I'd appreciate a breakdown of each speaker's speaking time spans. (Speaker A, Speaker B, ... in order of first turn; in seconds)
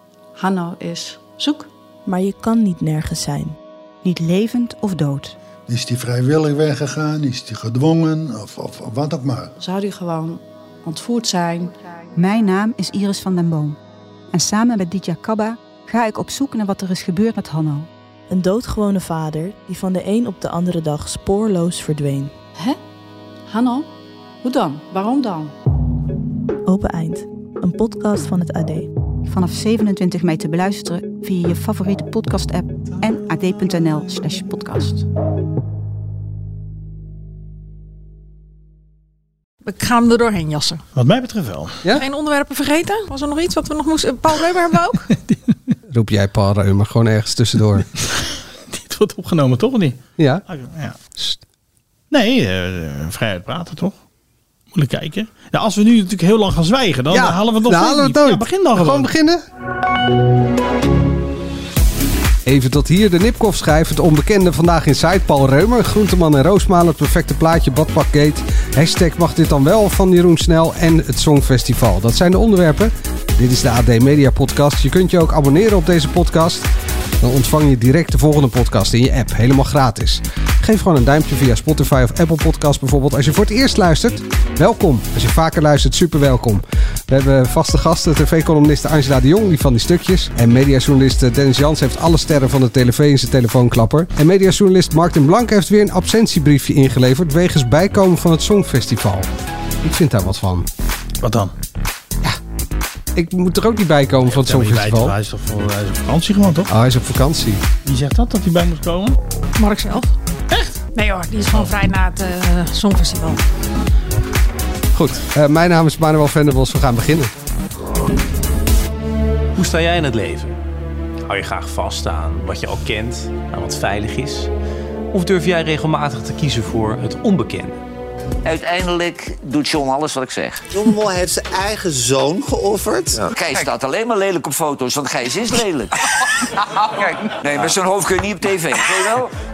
Speaker A: 0.4-1.7, 9.6-11.8, 23.5-23.9, 24.4-25.5
Speaker B: 2.1-3.6, 18.3-22.3, 26.7-28.9
Speaker C: 4.0-5.3, 12.2-13.8, 14.3-17.9, 29.2-35.1
Speaker D: 5.7-9.6
Speaker E: 39.6-40.8, 41.9-45.0, 109.6-110.1, 110.9-113.4
Speaker F: 41.0-41.8, 48.7-51.0, 52.1-54.0, 54.7-59.1, 101.2-101.5, 104.2-106.7, 107.8-109.2
Speaker G: 45.9-47.9, 50.2-50.4, 57.1-59.4, 62.5-76.7, 77.2-99.3, 99.8-100.7, 103.2-105.2, 106.7-107.6, 114.9-117.3
Speaker H: 119.5-120.6, 121.3-124.5, 125.1-127.8
Speaker I: 128.4-130.6, 133.3-135.9, 136.9-139.3
Speaker J: 130.7-133.3